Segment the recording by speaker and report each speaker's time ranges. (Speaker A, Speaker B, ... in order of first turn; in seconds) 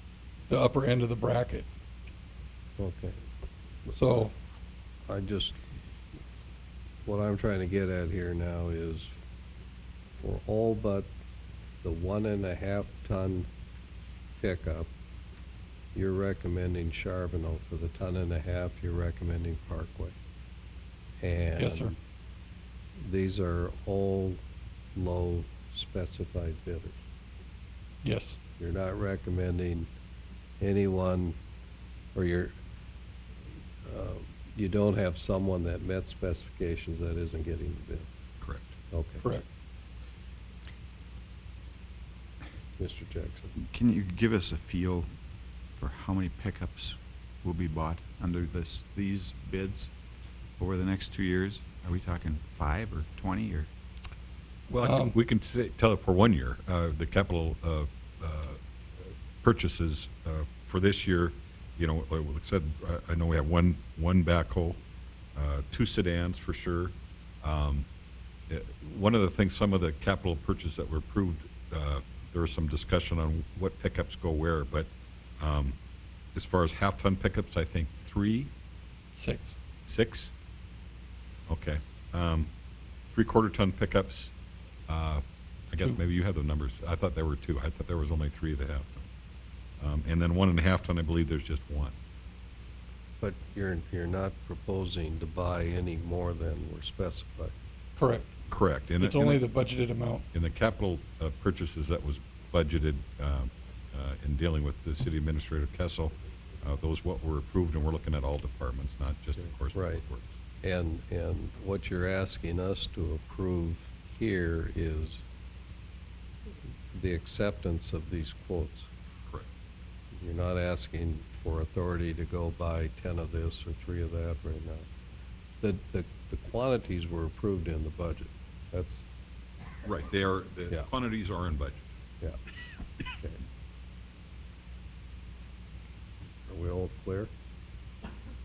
Speaker A: 0.5-1.7, 3.9-4.3, 21.6-21.9, 28.0-28.4, 54.8-55.1, 79.2-79.6, 98.0-98.3, 99.0-100.2
Speaker B: 2.8-3.1, 5.1-5.6, 7.0-9.2, 10.2-11.1, 11.8-13.5, 14.4-14.9, 15.9-20.1, 21.2-21.9, 23.0-24.4, 24.9-27.0, 28.6-29.9, 30.6-31.3, 32.1-32.5, 33.9-38.1, 38.9-39.2, 42.8-43.5, 93.2-97.5, 109.7-110.0, 110.6-115.2, 116.9-118.9, 120.2-124.9, 125.6-129.1, 136.5-137.3
Speaker C: 38.4-38.7, 54.7-64.8, 65.4-67.9, 68.5-75.8, 76.3-78.5, 79.8-80.3, 81.5-82.5, 83.1-84.3, 84.9-89.1, 89.8-92.0, 98.5-99.4, 100.3-110.3, 129.8-131.8
Speaker D: 43.6-45.1, 45.8-49.9, 50.6-53.7